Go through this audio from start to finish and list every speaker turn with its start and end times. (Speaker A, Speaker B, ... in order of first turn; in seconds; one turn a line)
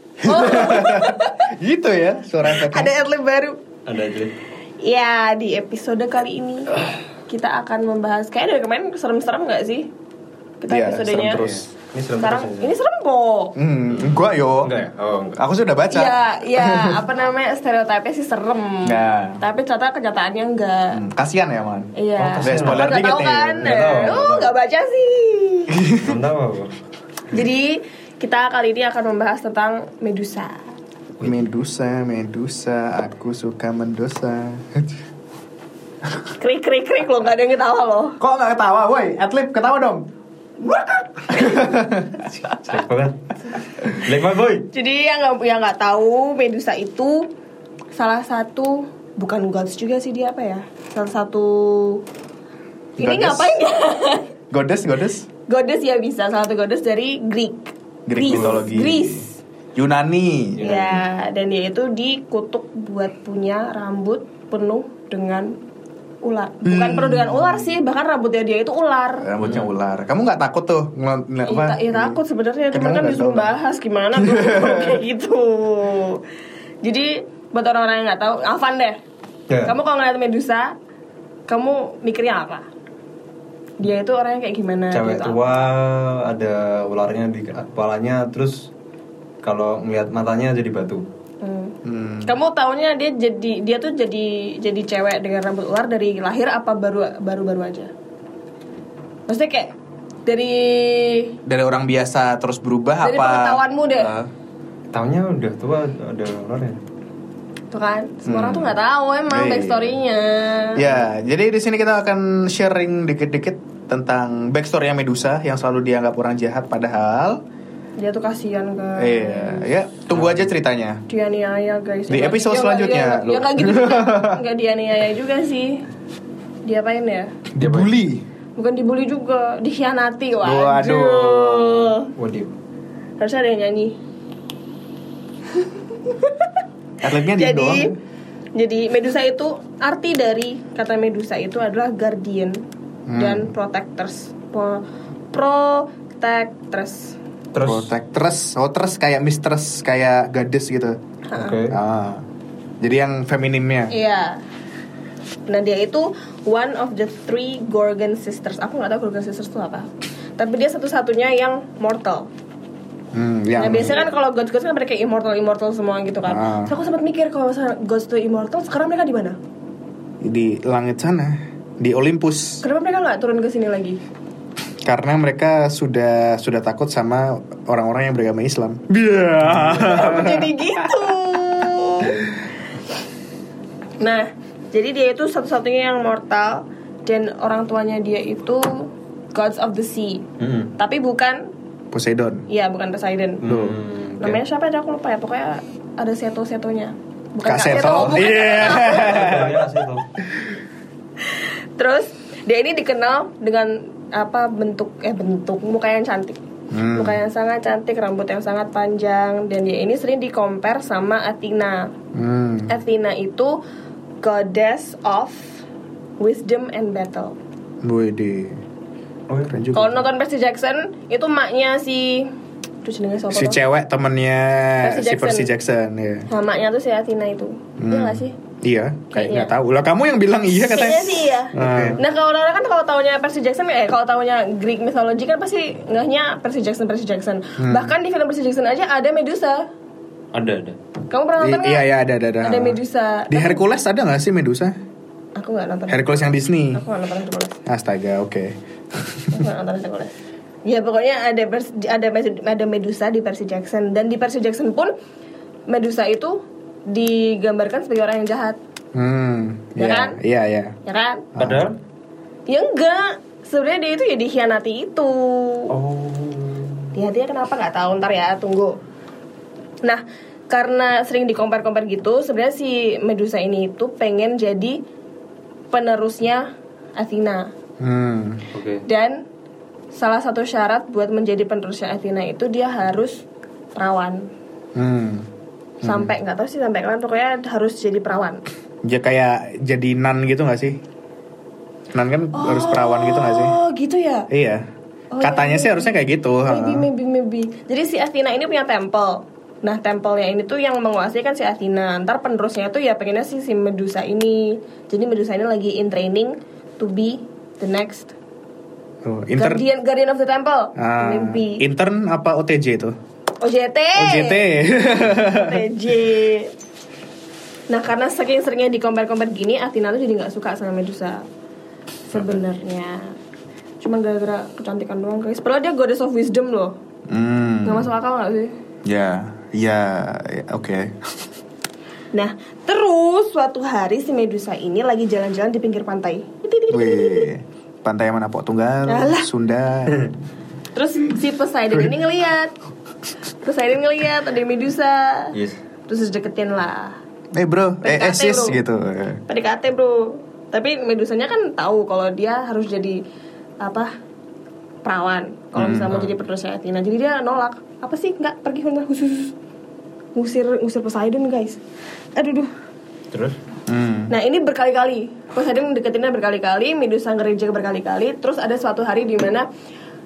Speaker A: 0.2-2.9
Speaker B: 0.2-1.5
Speaker B: 2.5-3.6
Speaker C: 3.9-4.4
Speaker B: 4.8-6.8
Speaker B: 7.3-9.9
Speaker B: 10.6-11.4
Speaker A: 10.7-11.7
Speaker C: 11.4-12.7
Speaker B: 12.2-13.6
Speaker A: 13.6-14.7
Speaker C: 13.9-15.4
Speaker A: 15.4-17.0
Speaker B: 15.9-21.0
Speaker A: 18.8-19.4
Speaker A: 20.9-23.7
Speaker B: 22.0-25.8
Speaker C: 22.2-23.1
Speaker C: 23.6-24.5
Speaker A: 25.7-26.2
Speaker C: 26.0-26.7
Speaker B: 27.3-30.6
Speaker C: 31.2-31.5
Speaker A: 31.2-34.9
Speaker B: 36.3-38.2
Speaker A: 38.2-40.0
Speaker B: 40.7-41.6
Speaker A: 41.3-42.3
Speaker C: 42.6-43.2
Speaker C: 43.8-44.7
Speaker B: 44.7-47.3
Speaker B: 47.9-52.0
Speaker A: 53.0-53.5
Speaker B: 53.0-54.3
Speaker A: 54.5-55.3
Speaker B: 55.5-59.4
Speaker A: 58.1-59.2
Speaker C: 58.3-58.6
Speaker A: 59.8-60.7
Speaker C: 60.6-61.0
Speaker B: 60.6-65.5
Speaker B: 66.2-69.3
Speaker A: 66.6-67.7
Speaker A: 69.2-72.2
Speaker C: 69.4-69.7
Speaker B: 71.5-76.2
Speaker A: 72.7-73.5
Speaker A: 74.2-75.0
Speaker B: 76.8-79.0
Speaker C: 79.5-79.8
Speaker B: 79.6-80.7
Speaker B: 81.5-82.7
Speaker B: 83.8-85.4
Speaker C: 84.9-88.7
Speaker C: 89.4-91.1
Speaker B: 91.4-97.9
Speaker A: 91.8-92.3
Speaker B: 99.3-99.7
Speaker B: 100.3-101.4
Speaker A: 101.5-104.3
Speaker B: 103.0-104.1
Speaker C: 104.9-106.8
Speaker B: 107.7-110.8
Speaker A: 108.3-108.8
Speaker A: 109.3-110.0
Speaker A: 110.8-117.4
Speaker B: 118.0-119.7
Speaker A: 119.0-121.0
Speaker C: 120.1-120.5
Speaker B: 121.1-125.8
Speaker A: 122.1-124.4
Speaker B: 126.7-127.3
Speaker A: 127.5-128.2
Speaker C: 127.6-127.9
Speaker B: 128.6-132.1
Speaker A: 130.4-131.9
Speaker C: 132.2-132.5
Speaker B: 133.2-134.0
Speaker B: 135.6-136.5
Speaker A: 137.0-137.9
Speaker B: 137.2-137.9
Speaker B: 138.6-142.6
Speaker A: 143.1-143.5
Speaker B: 143.2-147.2
Speaker C: 147.5-147.9
Speaker A: 147.6-151.0
Speaker B: 151.3-151.6
Speaker C: 151.3-151.8
Speaker A: 151.7-152.2
Speaker A: 152.8-153.9
Speaker B: 153.9-154.4
Speaker B: 155.5-162.3
Speaker A: 163.1-164.0
Speaker B: 163.6-169.4
Speaker C: 163.7-164.1
Speaker A: 166.3-166.8
Speaker A: 170.2-172.6
Speaker B: 172.6-174.0
Speaker A: 174.8-181.2
Speaker C: 179.4-180.0
Speaker B: 179.8-182.4
Speaker B: 184.0-190.2
Speaker C: 190.4-190.7
Speaker B: 190.8-191.4
Speaker A: 191.9-192.5
Speaker B: 192.5-193.4
Speaker C: 193.4-194.4
Speaker A: 193.5-193.8
Speaker B: 194.2-199.4
Speaker A: 197.4-199.7
Speaker C: 197.6-200.1
Speaker B: 201.3-206.4
Speaker A: 206.7-207.2
Speaker B: 206.9-211.9
Speaker A: 212.1-212.7
Speaker B: 212.7-213.6
Speaker B: 214.2-215.6
Speaker B: 216.2-217.4
Speaker A: 217.8-218.6
Speaker C: 219.3-219.6
Speaker A: 219.5-220.0
Speaker B: 219.7-222.3
Speaker B: 222.8-223.6
Speaker A: 223.3-226.3
Speaker B: 224.8-225.5
Speaker B: 226.3-228.3
Speaker A: 227.8-232.0
Speaker B: 229.1-229.5
Speaker B: 230.5-239.7
Speaker C: 231.6-232.0
Speaker A: 237.6-237.9
Speaker C: 240.3-240.8
Speaker B: 241.1-241.9
Speaker A: 241.4-244.8
Speaker B: 242.4-243.6
Speaker B: 245.4-247.6
Speaker A: 245.9-246.8
Speaker A: 247.7-249.4
Speaker B: 249.3-250.1
Speaker B: 250.7-254.9
Speaker B: 255.7-258.6
Speaker A: 258.9-260.8
Speaker B: 259.8-260.2
Speaker B: 260.9-261.3
Speaker A: 261.4-261.7
Speaker C: 261.4-261.8
Speaker B: 262.5-265.7
Speaker C: 265.7-266.9
Speaker B: 266.9-268.8
Speaker B: 269.8-274.8
Speaker B: 275.7-276.5
Speaker B: 277.0-277.5
Speaker A: 277.8-278.4
Speaker C: 278.5-278.8
Speaker B: 278.9-279.2
Speaker B: 279.9-284.3
Speaker A: 284.8-285.3
Speaker A: 285.8-286.1
Speaker B: 285.8-288.4
Speaker A: 288.8-290.8
Speaker A: 291.9-293.6
Speaker B: 292.3-294.3
Speaker A: 294.3-294.6
Speaker B: 295.1-308.1
Speaker A: 295.2-296.9
Speaker A: 309.0-309.6
Speaker B: 309.4-311.6
Speaker A: 310.8-312.9
Speaker B: 313.4-314.6
Speaker A: 314.0-315.6
Speaker B: 315.1-316.5
Speaker B: 317.7-321.2
Speaker B: 322.1-323.1
Speaker B: 323.8-326.8
Speaker A: 327.1-327.9
Speaker B: 327.6-328.5
Speaker A: 328.9-331.0
Speaker B: 332.1-337.3
Speaker A: 336.7-340.1
Speaker B: 338.9-339.3
Speaker B: 340.7-342.5
Speaker B: 343.4-345.3
Speaker C: 345.3-345.6
Speaker B: 345.9-347.0
Speaker A: 347.3-349.2
Speaker B: 347.8-348.6
Speaker B: 349.3-353.0
Speaker B: 353.6-353.9
Speaker B: 354.8-359.3
Speaker A: 355.6-356.0
Speaker B: 360.1-361.6
Speaker B: 362.1-362.5
Speaker C: 363.1-363.4
Speaker A: 363.7-364.1
Speaker B: 364.1-369.5